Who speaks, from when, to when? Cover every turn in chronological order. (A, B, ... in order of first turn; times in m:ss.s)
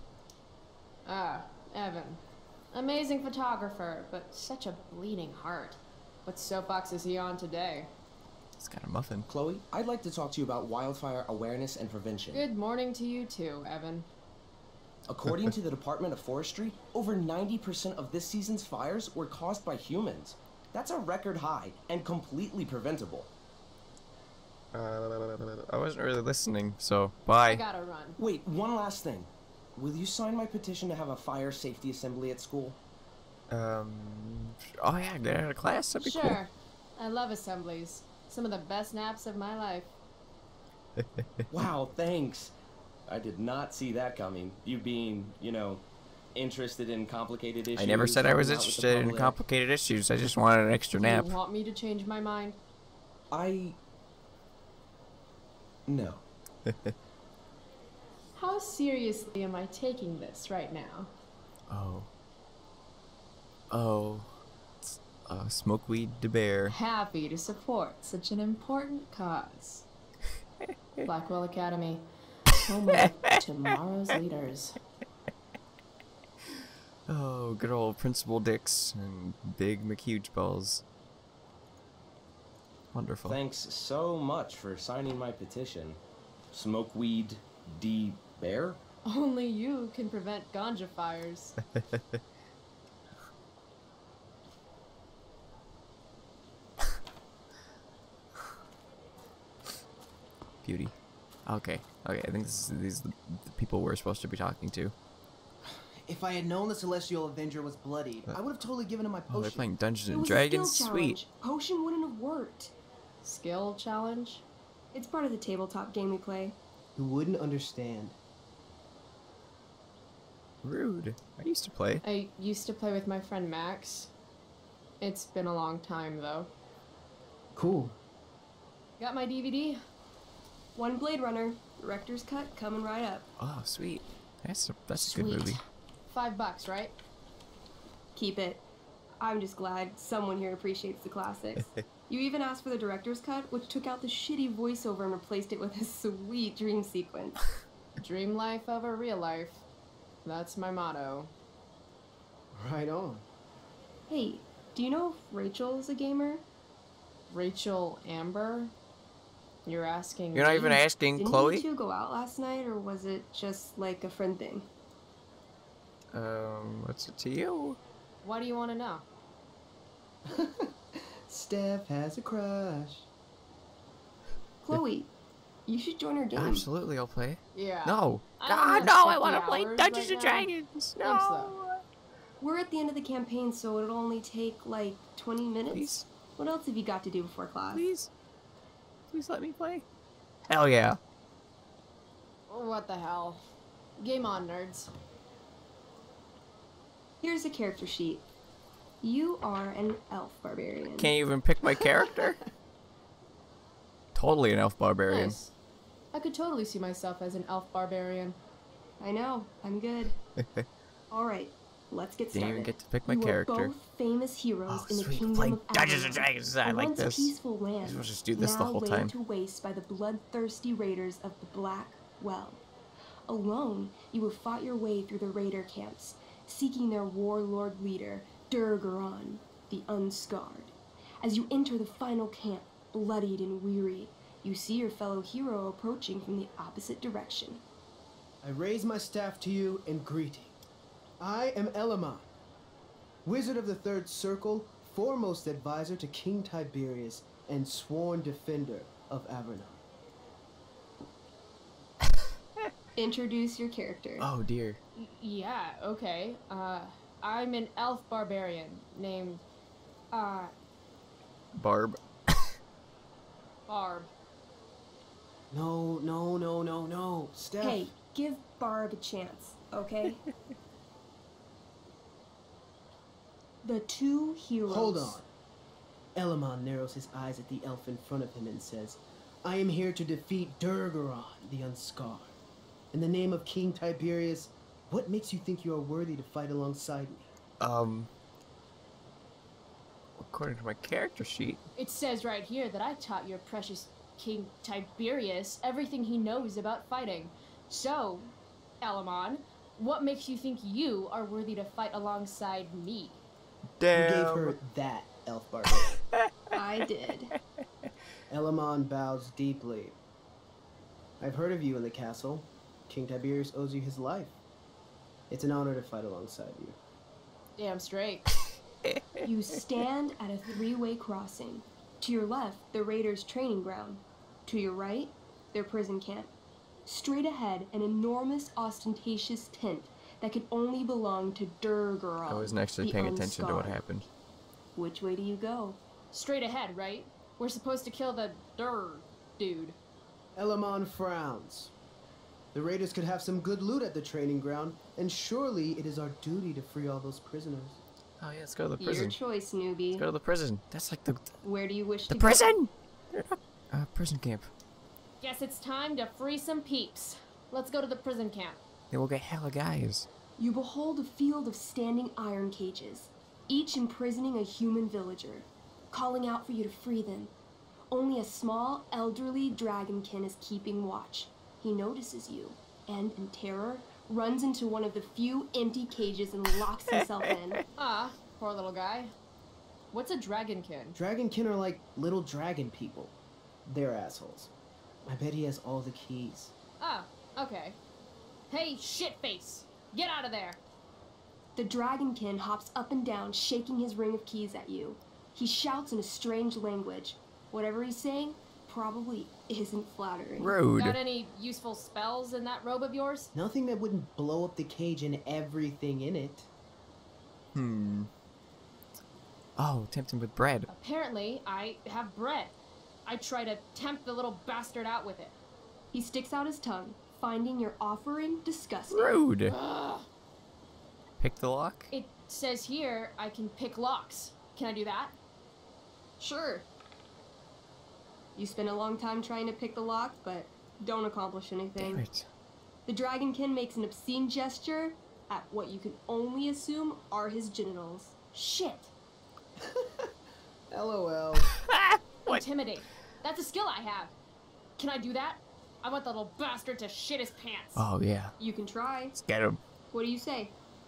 0:01.0-0:07.9 A
0:08.6-0:09.2 B
0:09.3-0:12.4 C
0:12.3-0:14.1 A
0:15.1-0:23.3 C
0:24.7-0:27.6 B
0:27.4-0:28.2 A
0:28.2-0:32.8 C
0:33.5-0:36.4 B
0:36.0-0:39.9 A
0:41.0-0:41.2 B
0:41.5-0:42.5 C
0:43.0-0:45.8 C
0:46.3-0:49.4 C
0:47.8-0:51.3 B
0:51.0-0:52.6 A
0:53.3-0:53.8 C
0:55.9-0:56.2 C
0:56.6-0:56.9 B
0:58.4-1:01.1 A
1:01.7-1:02.1 B
1:03.7-1:04.3 B
1:04.8-1:06.7 B
1:06.7-1:09.8 A
1:11.0-1:12.0 A
1:12.6-1:14.8 A
1:17.1-1:20.8 B
1:22.9-1:23.4 B
1:23.2-1:26.0 C
1:26.5-1:28.8 C
1:29.0-1:31.6 A
1:40.6-1:40.9 B
1:41.4-1:44.9 B
1:45.6-1:49.7 D
1:49.3-1:51.2 B
1:50.1-1:52.7 E
1:53.2-1:54.4 A
1:54.9-1:56.6 E
1:56.9-1:58.2 D
2:00.6-2:02.0 B
2:02.0-2:04.1 A
2:05.0-2:06.5 A
2:07.5-2:08.0 D
2:09.0-2:09.8 A
2:10.7-2:13.3 E
2:13.4-2:15.6 B
2:15.0-2:16.9 A
2:18.1-2:18.6 E
2:19.2-2:27.4 E
2:28.0-2:29.6 A
2:30.2-2:31.3 A
2:32.5-2:33.2 D
2:34.1-2:36.4 E
2:37.3-2:38.7 A
2:39.6-2:40.8 A
2:40.3-2:41.6 B
2:41.2-2:44.7 E
2:46.1-2:47.8 B
2:48.2-2:49.0 A
2:50.2-2:53.1 D
2:54.6-2:55.1 E
2:55.7-2:56.7 E
2:56.3-3:01.8 B
2:57.5-3:01.5 A
3:02.4-3:07.8 E
3:05.7-3:06.0 B
3:07.7-3:08.1 B
3:09.1-3:09.8 B
3:10.5-3:11.0 B
3:12.5-3:14.9 A
3:17.2-3:18.2 E
3:19.0-3:21.1 E
3:21.0-3:22.4 B
3:24.1-3:25.4 B
3:25.1-3:25.5 A
3:26.1-3:28.4 A
3:29.0-3:30.2 E
3:30.4-3:30.7 B
3:31.1-3:42.6 E
3:32.3-3:33.7 B
3:34.7-3:39.1 B
3:43.3-3:57.6 E
3:58.4-4:00.5 D
4:01.2-4:02.3 D
4:03.2-4:09.8 D
4:13.0-4:14.3 E
4:14.2-4:14.8 B
4:15.0-4:19.4 A
4:20.1-4:20.5 A
4:21.5-4:22.4 B
4:23.7-4:24.1 A
4:25.5-4:27.9 D
4:27.6-4:30.2 E
4:33.6-4:35.2 E
4:34.7-4:35.2 D
4:36.1-4:42.4 D
4:42.9-4:47.3 D
4:47.6-4:48.1 B
4:50.2-4:51.6 B
4:51.8-5:03.2 A
5:03.8-5:04.6 B
5:03.9-5:05.9 D
5:06.5-5:07.3 E
5:08.3-5:10.0 D
5:11.2-5:14.4 D
5:15.3-5:16.8 D
5:17.6-5:18.2 A
5:19.2-5:26.3 E
5:26.8-5:33.8 E
5:32.3-5:34.1 B
5:34.8-5:35.8 E
5:36.1-5:39.8 A
5:40.3-5:41.7 D
5:42.5-5:47.8 D
5:48.2-5:49.2 B
5:48.8-5:50.0 E
5:50.0-5:51.3 B
5:51.4-5:52.5 E
5:52.1-5:54.5 B
5:55.2-5:58.6 A
5:58.9-6:00.1 B
6:00.4-6:07.3 E
6:07.9-6:17.6 E
6:17.8-6:19.1 A
6:19.9-6:21.0 A
6:20.9-6:24.5 D
6:25.0-6:26.5 D
6:26.8-6:27.8 A
6:28.5-6:30.6 A
6:31.6-6:40.5 E
6:40.4-6:41.0 B
6:40.8-6:43.3 A
6:43.3-6:46.5 D
6:47.5-6:48.1 B
6:49.6-6:50.7 B
6:50.7-6:52.5 A
6:53.0-6:55.4 A
6:55.9-6:59.2 E
6:58.9-6:59.5 B
6:59.5-7:00.1 A
7:01.2-7:01.9 B
7:01.9-7:05.1 A
7:06.2-7:06.6 A
7:08.4-7:12.0 E
7:11.8-7:12.2 B
7:12.8-7:18.1 E
7:18.3-7:18.9 A
7:19.6-7:20.1 D
7:20.7-7:21.5 D
7:21.4-7:22.4 B
7:22.3-7:24.1 A
7:24.8-7:27.8 A
7:27.8-7:28.3 B
7:28.4-7:29.1 E
7:29.1-7:29.6 B
7:29.9-7:30.5 E